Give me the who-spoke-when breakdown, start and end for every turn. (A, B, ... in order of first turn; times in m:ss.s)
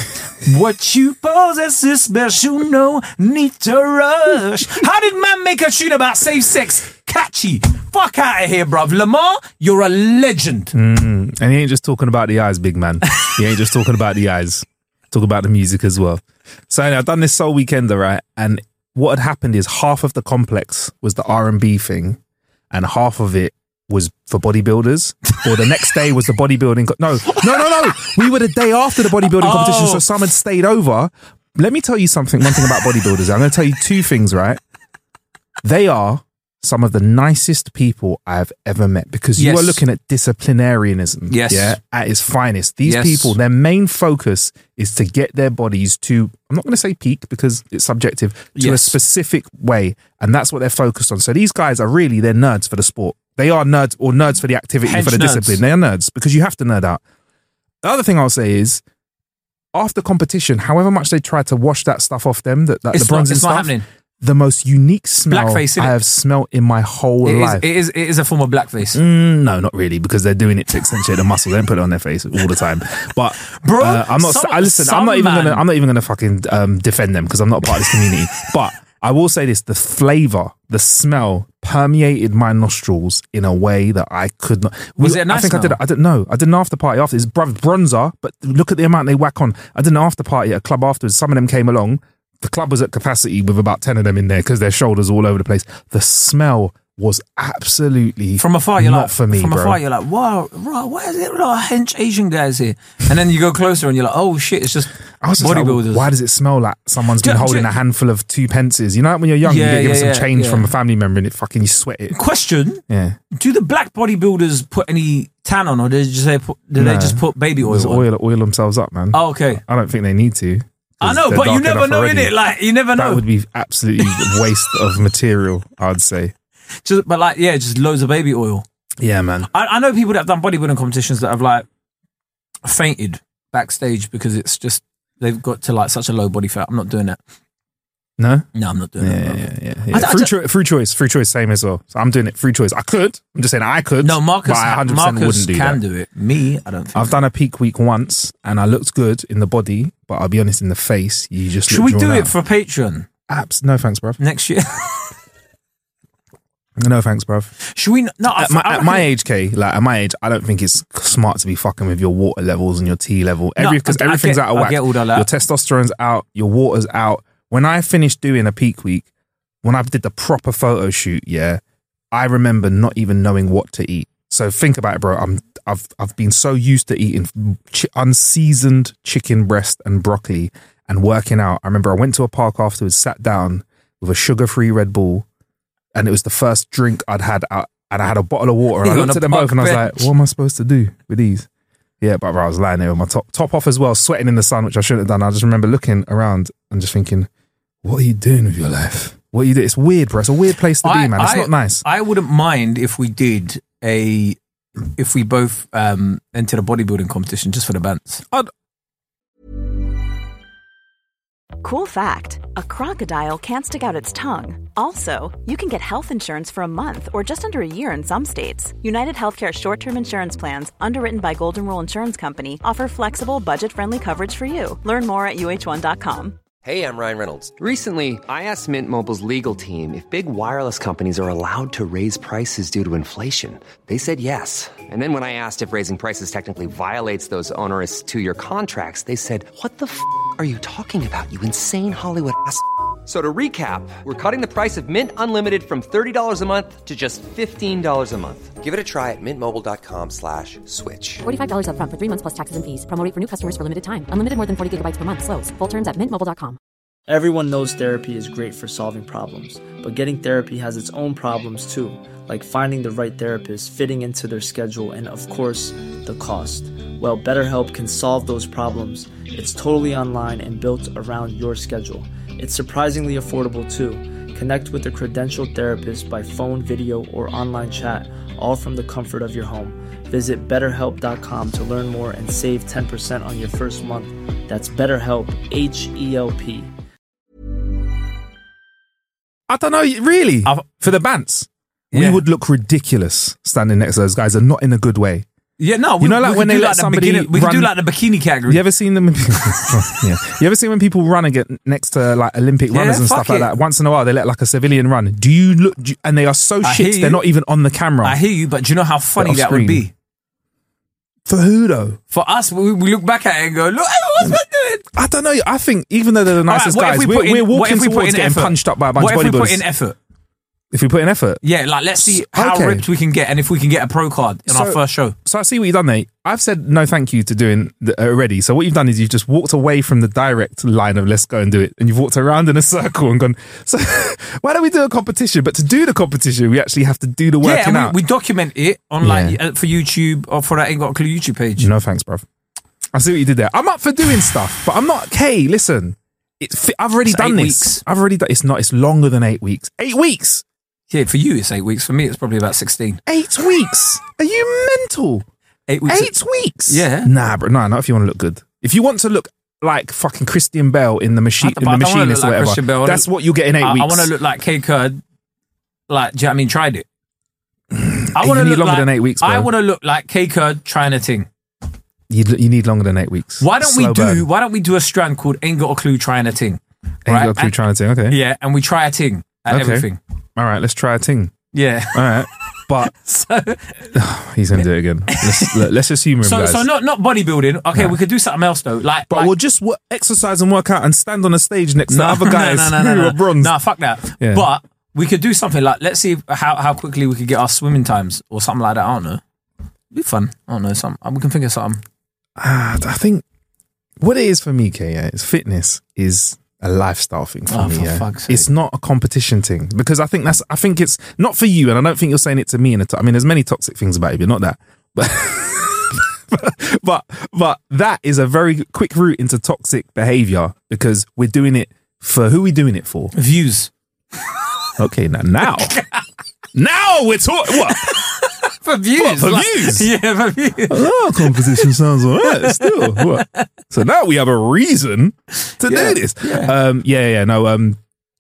0:00.4-0:10.8 A
0:10.7-0:22.2 B
0:22.7-0:34.6 B
0:27.3-0:28.1 A
0:29.2-0:30.1 A
0:35.6-0:57.0 B
0:39.4-0:39.8 A
0:41.3-0:41.8 A
0:42.8-0:43.4 A
0:48.6-0:49.0 A
0:54.8-0:55.6 A
0:57.8-0:58.8 B
0:59.7-1:07.6 B
1:02.9-1:03.8 A
1:05.3-1:06.0 A
1:07.2-1:09.0 A
1:08.9-1:39.8 B
1:13.5-1:15.7 A
1:25.0-1:25.8 A
1:38.4-1:46.1 A
1:45.2-1:52.2 B
1:47.2-1:47.7 A
1:49.4-1:50.7 A
1:52.1-1:58.1 A
1:52.9-1:53.2 B
1:56.8-2:02.4 B
1:59.1-1:59.6 A
2:01.0-2:03.2 A
2:02.9-2:06.3 B
2:04.0-2:04.7 A
2:06.8-2:08.6 A
2:09.0-2:09.5 B
2:09.5-2:11.6 A
2:12.6-2:17.2 A
2:18.2-2:18.5 B
2:18.6-2:20.3 A
2:19.0-2:25.8 B
2:24.0-2:27.2 A
2:27.0-2:32.3 B
2:31.7-2:33.1 A
2:33.3-2:34.2 B
2:34.2-2:35.2 A
2:36.8-2:37.5 B
2:37.6-2:39.1 A
2:38.3-2:49.1 B
2:43.6-2:45.3 A
2:49.6-2:51.6 B
2:52.1-3:05.3 B
3:06.0-3:11.5 B
3:08.8-3:10.1 A
3:12.0-3:17.3 B
3:17.8-3:21.8 B
3:20.8-3:28.2 A
3:31.6-3:46.4 C
3:46.6-4:11.2 D
4:11.2-4:16.6 E
4:17.1-4:46.7 F
4:49.5-4:55.3 B
4:51.9-4:52.2 A
4:55.6-4:58.6 A
4:56.0-4:57.8 B
4:58.5-5:08.2 B
5:02.7-5:03.5 A
5:06.6-5:07.2 A
5:08.0-5:09.9 A
5:09.2-5:09.9 B
5:11.3-5:12.0 B
5:12.1-5:14.8 A
5:14.9-5:19.6 B
5:16.5-5:20.0 A
5:20.7-5:21.4 B
5:21.4-5:25.2 A
5:22.0-5:22.8 B
5:24.5-5:38.0 B
5:37.4-5:41.7 A
5:39.0-5:39.4 B
5:41.6-5:42.2 B
5:42.9-5:50.4 B
5:47.0-5:47.8 A
5:50.9-5:53.0 A
5:53.1-5:55.2 B
5:55.7-5:56.1 A
5:55.8-6:04.1 B
5:56.7-5:57.1 A
6:01.4-6:03.1 A
6:03.6-6:05.0 A
6:05.9-6:06.8 A
6:07.7-6:09.5 B
6:08.2-6:11.3 A
6:12.1-6:14.3 B
6:13.4-6:17.6 A
6:17.1-6:18.2 B
6:18.1-6:20.0 A
6:19.5-6:21.3 B
6:21.5-6:22.3 A
6:21.9-6:22.9 B
6:22.8-6:23.9 A
6:23.9-6:26.7 B
6:24.6-6:25.6 A
6:26.2-6:29.3 A
6:29.1-6:33.6 B
6:31.9-6:39.2 A
6:34.2-6:34.5 B
6:39.9-6:41.8 A
6:42.4-6:43.2 B
6:44.0-7:03.1 B
6:47.5-6:48.5 A
7:03.1-7:03.7 A
7:04.8-7:05.8 B
7:05.7-7:06.0 A
7:06.5-7:08.1 B
7:07.6-7:11.7 A
7:09.0-7:09.9 B
7:10.7-7:17.8 B
7:12.2-7:13.5 A
7:15.5-7:16.6 A